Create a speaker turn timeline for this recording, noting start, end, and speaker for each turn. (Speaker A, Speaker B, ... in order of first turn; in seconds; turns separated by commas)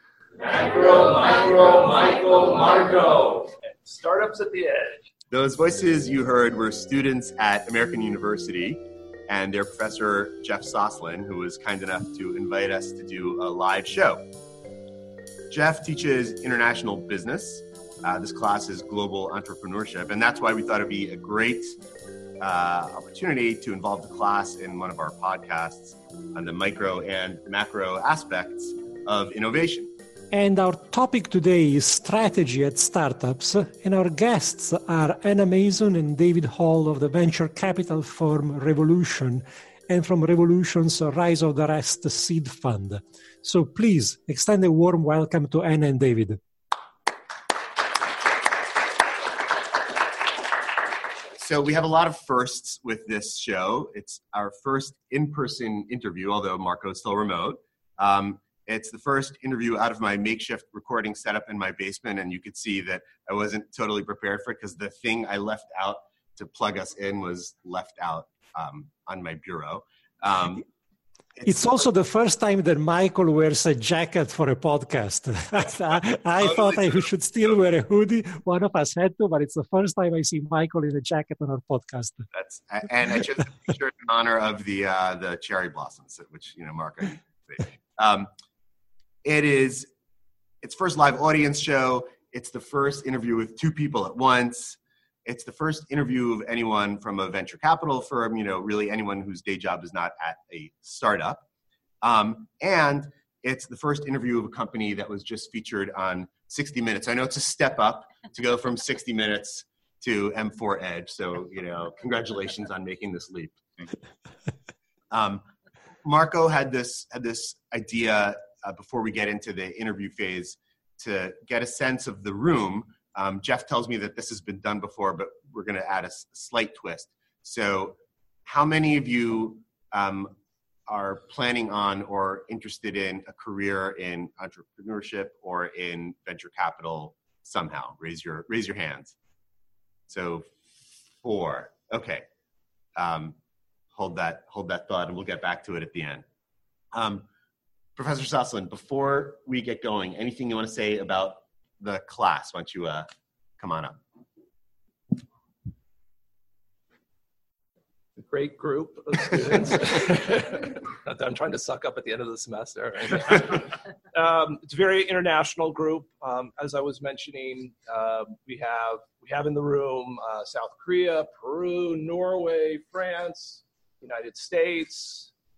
Speaker A: 0.4-5.0, Speaker B: 5.3-14.2, Speaker B: 15.5-21.8, Speaker B: 22.4-29.9, Speaker C: 30.3-46.4, Speaker B: 51.4-70.7, Speaker B: 71.4-71.8, Speaker C: 71.4-82.3, Speaker B: 76.5-76.9, Speaker B: 82.3-88.3, Speaker B: 89.2-89.9, Speaker B: 90.6-101.5, Speaker B: 102.0-113.6, Speaker B: 115.1-115.5, Speaker B: 116.0-130.3, Speaker B: 130.9-139.1, Speaker B: 140.1-142.3, Speaker B: 143.0-143.4, Speaker B: 143.9-146.2, Speaker B: 146.9-147.3, Speaker B: 148.0-153.1, Speaker B: 153.6-154.0, Speaker A: 158.2-175.3